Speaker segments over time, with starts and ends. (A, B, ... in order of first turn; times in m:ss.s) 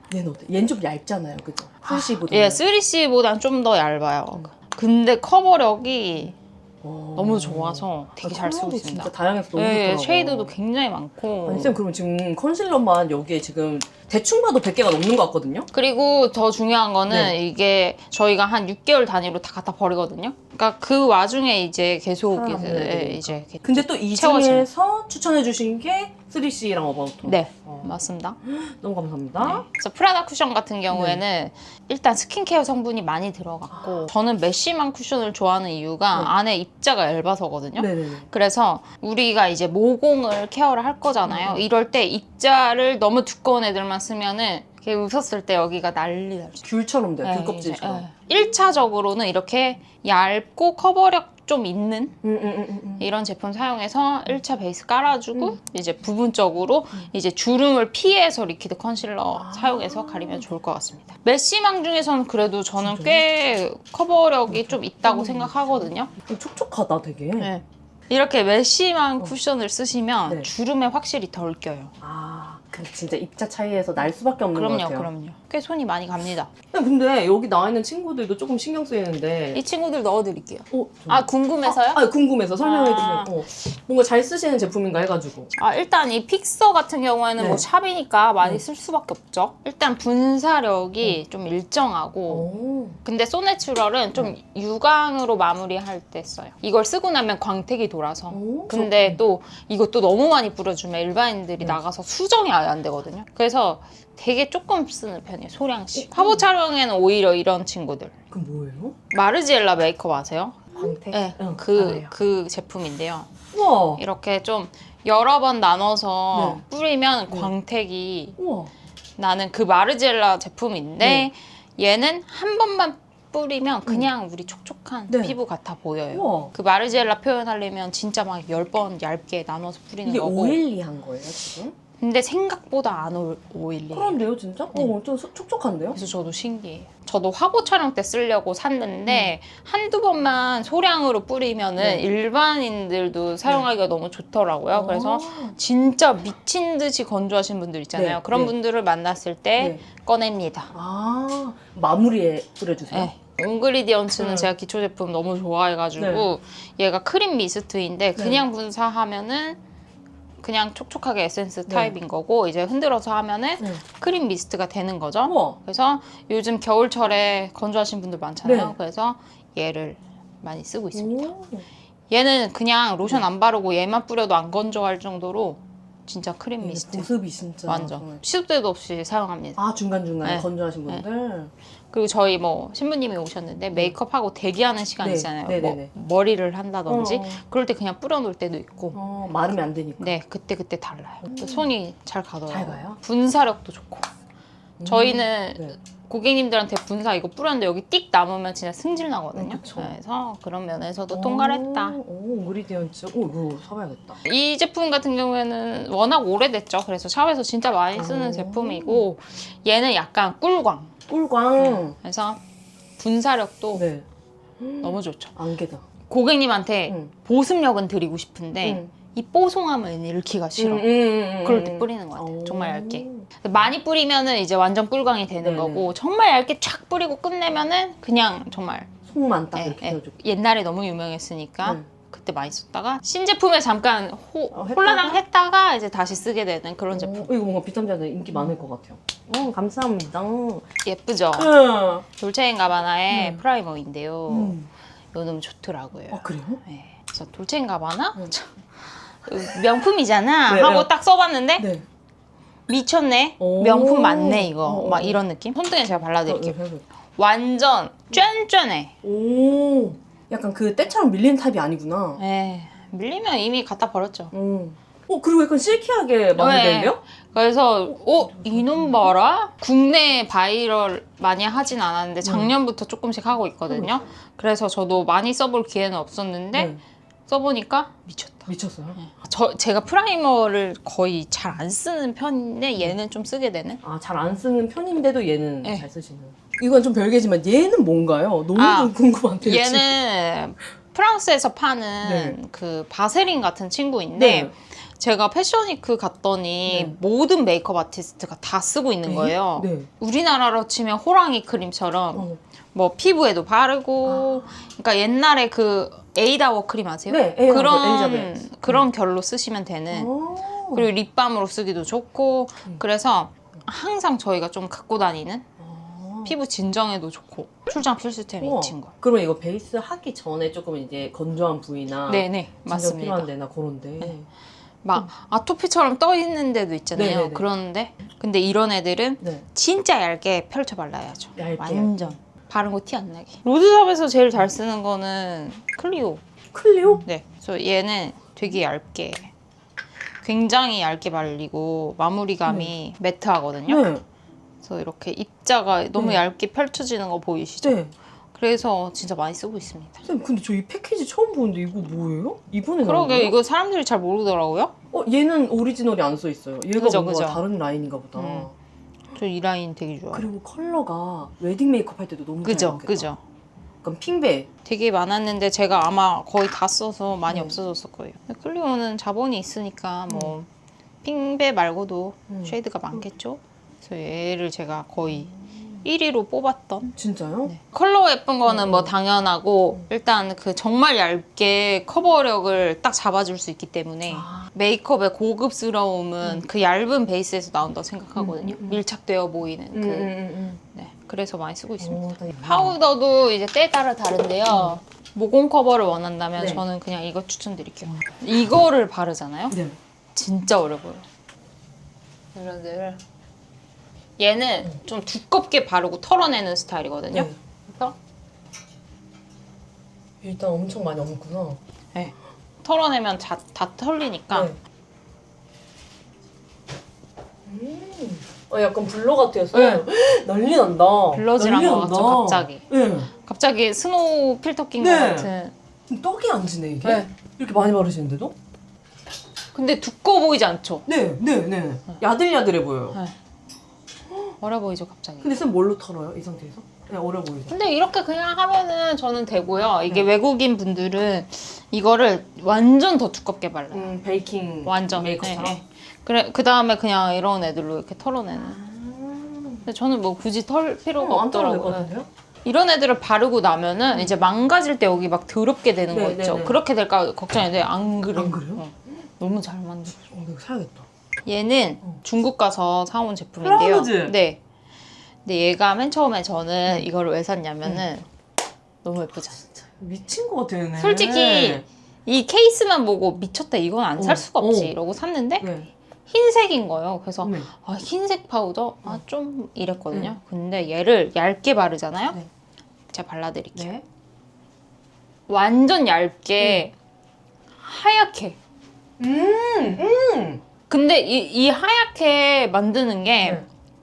0:00.1-0:02.6 A
0:01.8-0:06.4 B
0:06.8-0:10.5 A
0:07.2-0:11.8 B
0:11.4-0:15.7 A
0:15.7-0:24.7 B
0:17.1-0:17.4 A
0:22.3-0:27.9 A
0:27.3-0:28.4 B
0:28.4-0:29.6 A
0:29.4-0:46.7 B
0:30.9-0:31.2 A
0:33.7-0:34.1 A
0:37.8-0:38.3 A
0:41.2-0:41.6 A
0:46.6-0:48.0 A
0:47.2-0:52.2 B
0:52.2-0:53.1 A
0:53.0-1:06.1 B
0:59.3-1:00.6 A
1:02.8-1:03.2 A
1:04.5-1:07.5 A
1:07.4-1:11.9 B
1:12.0-1:15.1 A
1:14.5-1:16.5 B
1:16.7-1:19.6 A
1:19.5-1:22.0 B
1:20.7-1:25.5 A
1:22.6-1:23.3 B
1:25.6-1:32.5 B
1:27.4-1:27.6 A
1:32.3-1:33.0 A
1:33.0-1:48.2 B
1:38.3-1:39.2 A
1:46.0-1:46.4 A
1:48.3-1:49.0 A
1:49.1-1:53.3 B
1:50.8-1:52.1 A
1:53.5-1:54.0 A
1:54.0-1:58.4 B
1:56.3-1:56.6 A
1:58.4-1:58.7 A
1:59.2-2:10.6 B
2:01.0-2:01.3 A
2:05.1-2:05.4 A
2:06.1-2:06.5 A
2:10.0-2:11.8 A
2:12.0-2:14.2 B
2:13.9-2:16.0 A
2:16.0-2:30.7 B
2:19.1-2:19.4 A
2:21.8-2:22.0 A
2:24.7-2:25.6 A
2:28.0-2:28.5 A
2:30.7-2:33.1 A
2:32.9-2:39.6 B
2:34.2-2:34.5 A
2:36.0-2:36.3 A
2:38.2-2:38.4 A
2:40.4-2:51.3 B
2:41.7-2:41.9 A
2:45.2-2:45.6 A
2:48.4-2:48.8 A
2:50.9-2:51.7 A
2:52.1-2:57.1 B
2:56.6-2:58.2 A
2:57.7-2:59.6 B
2:59.6-3:01.5 A
3:00.2-3:01.0 B
3:01.9-3:09.0 B
3:05.0-3:05.9 A
3:06.9-3:07.4 A
3:08.9-3:10.1 A
3:10.0-3:14.1 B
3:11.2-3:11.7 A
3:12.5-3:13.0 A
3:14.8-3:15.8 A
3:14.8-3:22.0 B
3:19.3-3:20.0 A
3:21.1-3:24.2 A
3:24.2-3:30.9 B
3:27.9-3:29.0 A
3:31.1-3:32.0 A
3:31.6-3:32.4 B
3:33.0-3:33.8 B
3:33.8-3:34.0 A
3:34.6-3:35.8 A
3:34.8-3:35.4 B
3:36.1-3:40.9 B
3:38.6-3:38.9 A
3:40.6-3:43.3 A
3:41.4-3:48.9 B
3:45.4-3:45.9 A
3:49.1-3:50.1 A
3:49.6-3:57.3 B
3:54.5-3:55.2 A
3:57.0-4:00.7 A
4:00.8-4:01.5 B
4:01.3-4:02.0 A
4:02.1-4:04.6 B
4:03.1-4:03.4 A
4:04.3-4:04.7 A
4:05.1-4:11.7 B
4:06.1-4:06.6 A
4:10.5-4:10.9 A
4:11.6-4:11.8 A
4:12.7-4:16.6 B
4:13.4-4:15.2 A
4:16.2-4:16.8 A
4:17.2-4:18.9 B
4:19.0-4:22.2 A
4:22.2-4:24.3 B
4:24.3-4:27.0 A
4:26.4-4:36.8 B
4:28.2-4:29.1 A
4:32.2-4:32.5 A
4:36.5-4:36.8 A
4:37.3-4:43.8 B
4:38.5-4:39.0 A
4:43.8-4:49.9 A
4:48.6-5:10.1 B
4:52.0-4:52.4 A
4:54.2-4:54.5 A
4:56.7-4:56.9 A
4:59.0-4:59.9 A
5:02.1-5:02.4 A
5:04.0-5:04.4 A
5:07.1-5:08.8 A
5:09.9-5:10.9 A
5:10.7-5:15.5 B
5:15.6-5:16.3 A
5:16.2-5:18.9 B
5:18.4-5:24.3 A
5:22.1-5:23.3 B
5:24.8-5:36.2 B
5:27.0-5:27.4 A
5:31.4-5:32.1 A
5:36.5-5:37.0 A
5:37.0-5:39.3 B
5:40.2-5:43.9 B
5:42.5-5:42.7 A
5:43.7-5:44.0 A
5:44.6-5:47.8 B
5:46.0-5:46.2 A
5:47.6-5:47.9 A
5:48.4-5:50.0 B
5:50.0-5:53.3 A
5:52.8-5:54.8 B
5:54.9-5:58.5 A
5:56.8-5:57.4 B
5:58.2-5:58.5 B
5:59.2-6:00.3 B
6:00.1-6:03.1 A
6:02.4-6:03.2 B
6:03.8-6:04.5 A
6:04.6-6:10.5 B
6:07.3-6:07.6 A
6:10.1-6:10.4 A
6:11.0-6:15.3 B
6:12.3-6:13.0 A
6:15.3-6:15.8 A
6:15.8-6:30.2 B
6:17.0-6:17.5 A
6:18.4-6:18.9 A
6:24.1-6:24.4 A
6:28.2-6:28.8 A
6:29.7-6:30.6 A
6:30.7-6:39.6 B
6:31.8-6:32.8 A
6:34.5-6:34.8 A
6:36.4-6:36.6 A
6:39.5-6:39.8 A
6:40.2-6:41.0 B
6:42.4-6:43.0 B
6:44.2-6:48.0 B
6:50.2-6:51.6 A
6:52.0-6:54.5 B
6:54.3-6:54.6 A
6:57.5-7:03.1 A
6:59.5-6:59.8 B
7:01.1-7:02.7 B
7:03.2-7:05.5 B
7:04.8-7:05.3 A
7:05.9-7:08.4 A
7:06.8-7:07.1 B
7:09.5-7:10.9 B
7:10.9-7:13.0 A
7:14.1-7:14.4 A
7:14.4-7:15.3 B
7:15.2-7:17.6 A
7:17.5-7:23.9 B
7:23.7-7:25.6 A
7:24.7-7:28.6 B
7:28.4-7:29.6 A
7:29.6-7:31.9 B
7:31.0-7:32.1 A
7:32.4-7:40.0 B
7:35.9-7:36.6 A
7:38.2-7:38.6 A
7:40.1-7:40.9 A
7:41.3-7:44.4 B
7:43.4-7:44.1 A
7:45.2-7:48.1 B
7:48.8-7:49.4 B
7:49.4-7:51.7 A
7:50.8-7:55.5 B
7:54.0-7:54.7 A
7:55.4-7:55.7 A
7:56.1-8:02.2 B
7:57.2-7:57.5 A
8:02.9-8:03.7 B
8:03.6-8:03.8 A
8:05.3-8:06.7 B
8:06.4-8:06.7 A
8:07.6-8:08.4 B
8:09.0-8:10.4 A
8:10.7-8:13.4 B